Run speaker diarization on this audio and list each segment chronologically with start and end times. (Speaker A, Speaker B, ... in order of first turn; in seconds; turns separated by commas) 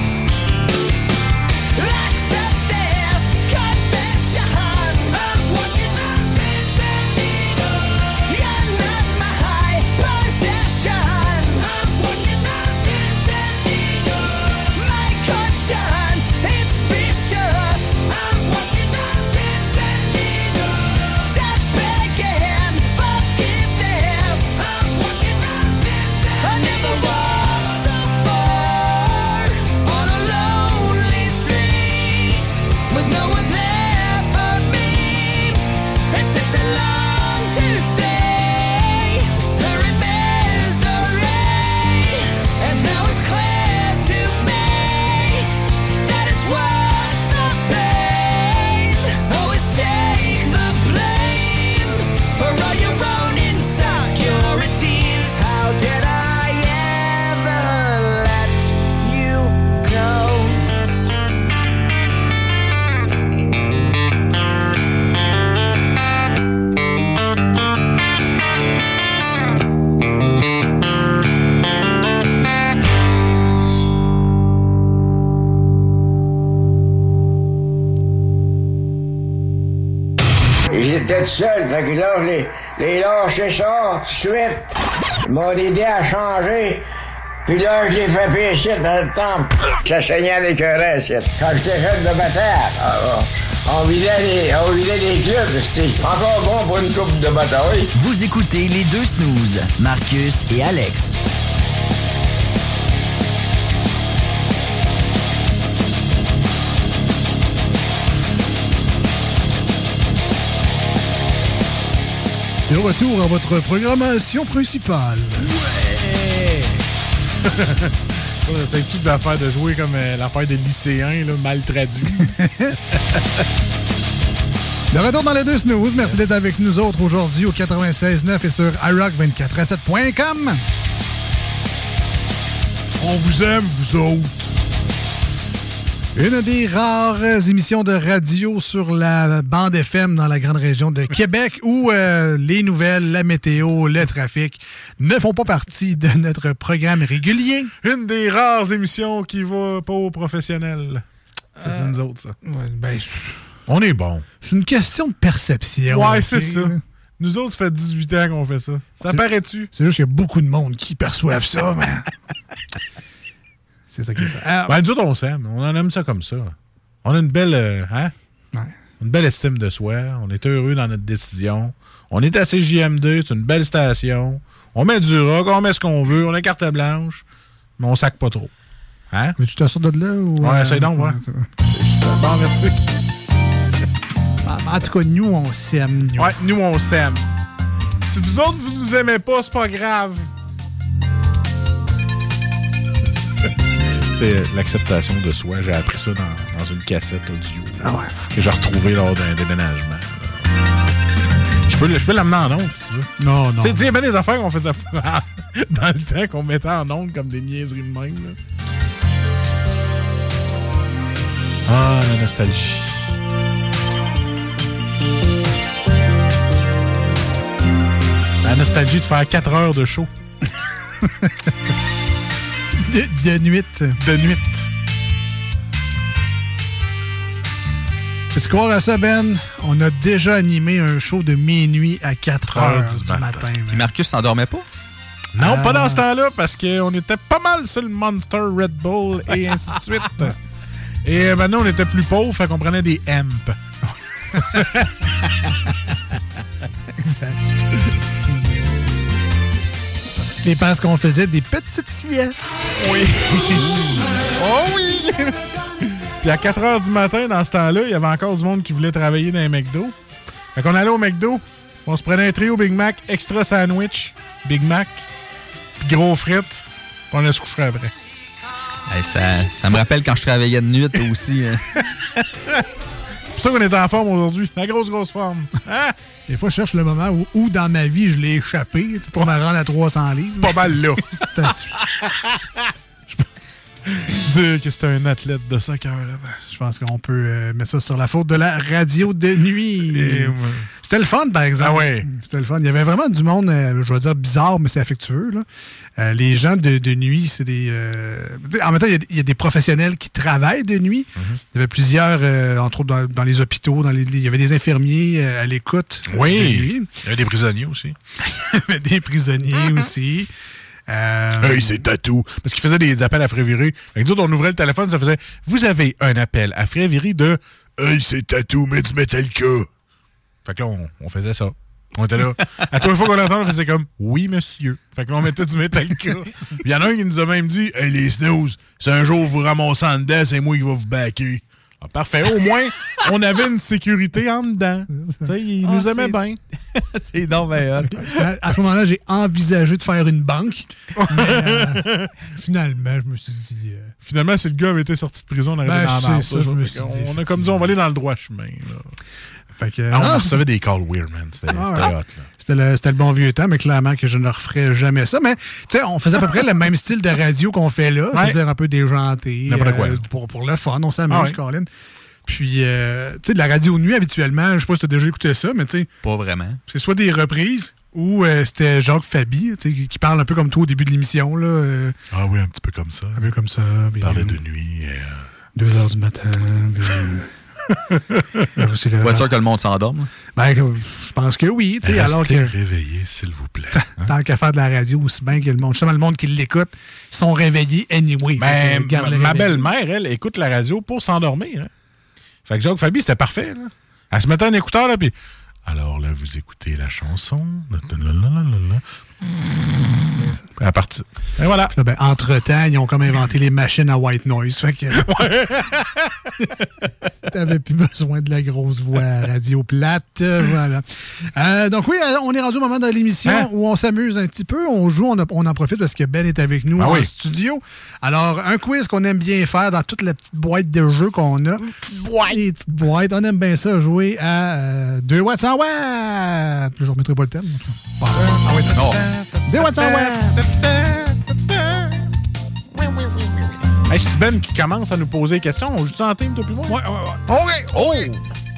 Speaker A: 1.7-60.8, Speaker B: 80.7-86.8, Speaker B: 87.5-97.9, Speaker C: 97.9-101.2, Speaker D: 112.7-115.5, Speaker E: 115.4-116.8, Speaker E: 117.4-122.3, Speaker D: 122.4-122.8, Speaker D: 124.9-130.6, Speaker E: 126.0-126.4, Speaker E: 133.0-134.3, Speaker D: 136.1-147.7, Speaker E: 147.8-151.0, Speaker E: 151.6-152.4, Speaker D: 151.6-151.9, Speaker D: 152.4-153.4, Speaker E: 153.7-154.2, Speaker D: 154.4-156.8, Speaker E: 155.9-159.7, Speaker D: 159.1-162.1, Speaker D: 163.9-164.7, Speaker E: 164.6-168.1, Speaker E: 169.0-177.2, Speaker E: 177.8-178.5, Speaker E: 179.1-179.4, Speaker D: 179.4-181.5, Speaker E: 180.4-182.8, Speaker D: 184.4-186.4, Speaker E: 186.2-187.2, Speaker E: 188.0-190.3, Speaker E: 194.1-200.5, Speaker D: 197.8-198.2, Speaker E: 201.7-208.4, Speaker D: 203.2-203.9, Speaker E: 211.7-213.2, Speaker E: 218.4-220.1, Speaker D: 222.8-224.0, Speaker E: 224.0-224.7, Speaker D: 228.3-233.9, Speaker E: 232.5-233.5, Speaker F: 233.7-234.7, Speaker E: 235.3-240.3, Speaker D: 235.4-236.0, Speaker E: 241.0-243.6, Speaker D: 244.3-244.8, Speaker D: 247.0-247.4, Speaker D: 250.4-252.7, Speaker F: 252.8-253.6, Speaker E: 254.4-254.9, Speaker E: 256.2-259.9, Speaker E: 260.5-265.1, Speaker E: 265.8-267.9, Speaker F: 268.9-271.6, Speaker E: 272.0-272.6, Speaker E: 273.3-275.9, Speaker D: 276.3-281.8, Speaker E: 280.4-282.6, Speaker E: 283.9-286.4, Speaker D: 286.4-295.4, Speaker E: 289.8-290.7, Speaker E: 291.6-292.1, Speaker D: 296.0-306.9, Speaker E: 306.1-307.9, Speaker D: 308.3-310.3, Speaker D: 310.9-311.8, Speaker E: 311.4-319.7, Speaker E: 320.4-336.4, Speaker D: 335.0-335.3, Speaker F: 335.6-336.2, Speaker F: 336.7-338.2, Speaker D: 338.0-343.9, Speaker E: 340.9-342.1, Speaker E: 344.0-349.0, Speaker D: 345.6-347.7, Speaker D: 349.6-350.4, Speaker E: 349.9-352.3, Speaker D: 351.5-361.7, Speaker E: 358.1-358.4, Speaker E: 359.5-360.0, Speaker E: 361.1-361.4, Speaker D: 362.2-365.9, Speaker F: 366.0-366.6, Speaker D: 366.7-372.0, Speaker E: 372.1-373.3, Speaker D: 373.1-374.4, Speaker E: 374.0-375.3, Speaker D: 375.5-377.3, Speaker E: 377.9-378.2, Speaker D: 378.4-379.3, Speaker F: 379.0-380.1, Speaker D: 380.3-382.6, Speaker E: 381.8-384.1, Speaker D: 383.7-389.7, Speaker E: 388.4-391.7, Speaker E: 392.4-398.8, Speaker E: 400.6-401.7, Speaker D: 401.7-405.4, Speaker E: 405.0-406.2, Speaker D: 407.2-428.9, Speaker E: 416.8-417.1, Speaker E: 421.7-422.4, Speaker E: 428.1-432.1, Speaker F: 428.7-429.0, Speaker D: 429.4-430.4, Speaker E: 432.8-436.8, Speaker D: 436.7-437.2, Speaker E: 437.3-438.1, Speaker F: 437.5-438.2